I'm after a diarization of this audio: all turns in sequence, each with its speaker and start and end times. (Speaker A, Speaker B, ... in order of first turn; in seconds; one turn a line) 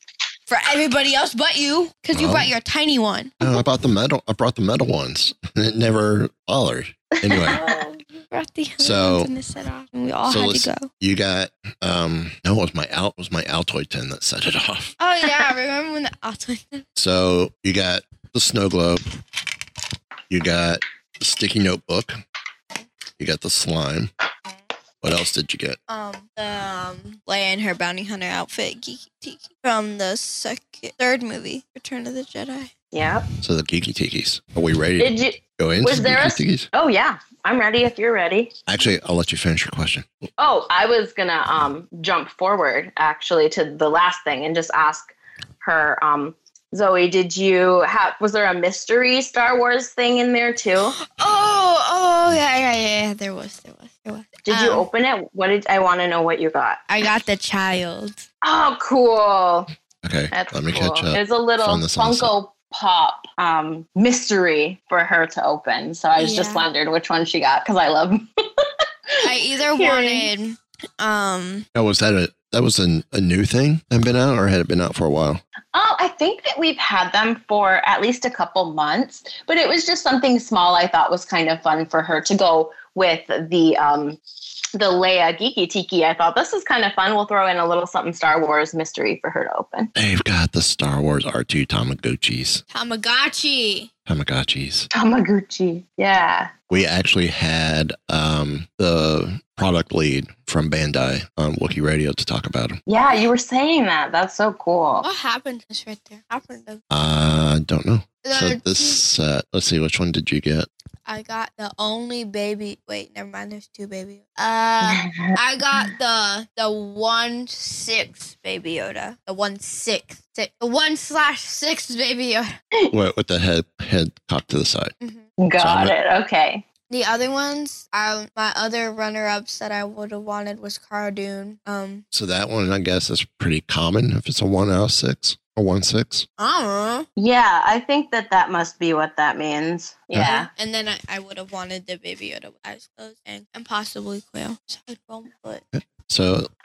Speaker A: 0.5-3.4
Speaker B: 2.1-2.5
Speaker B: 3.4-7.6
Speaker C: 7.2-7.8
Speaker A: 7.5-10.9
Speaker B: 8.8-9.3
Speaker B: 10.3-14.9
Speaker A: 15.0-16.9
Speaker B: 17.0-19.0
Speaker B: 20.3-22.2
Speaker B: 23.2-24.1
Speaker B: 25.0-25.8
Speaker A: 25.9-32.7
Speaker C: 32.9-33.3
Speaker B: 33.4-36.7
Speaker C: 35.0-38.5
Speaker B: 38.7-40.1
Speaker C: 40.4-51.0
Speaker A: 51.0-54.9
Speaker C: 54.5-56.8
Speaker A: 56.9-58.2
Speaker C: 58.4-59.7
Speaker B: 60.0-62.3
Speaker C: 60.3-70.3
Speaker A: 66.2-66.7
Speaker A: 69.2-71.7
Speaker B: 71.7-75.4
Speaker C: 75.7-84.2
Speaker C: 84.7-89.9
Speaker B: 90.0-92.6
Speaker A: 92.7-93.9
Speaker B: 94.1-94.9
Speaker C: 94.9-96.5
Speaker B: 96.7-102.8
Speaker C: 102.9-105.1
Speaker A: 105.0-106.8
Speaker B: 106.9-110.7
Speaker A: 108.2-109.0
Speaker A: 111.1-122.5
Speaker C: 114.8-115.4
Speaker B: 122.9-124.9
Speaker A: 125.0-125.3
Speaker C: 125.4-126.6
Speaker B: 125.6-126.0
Speaker A: 126.9-132.0
Speaker B: 132.1-136.3
Speaker A: 136.4-137.1
Speaker C: 137.2-140.5
Speaker A: 140.2-145.6
Speaker B: 145.7-146.5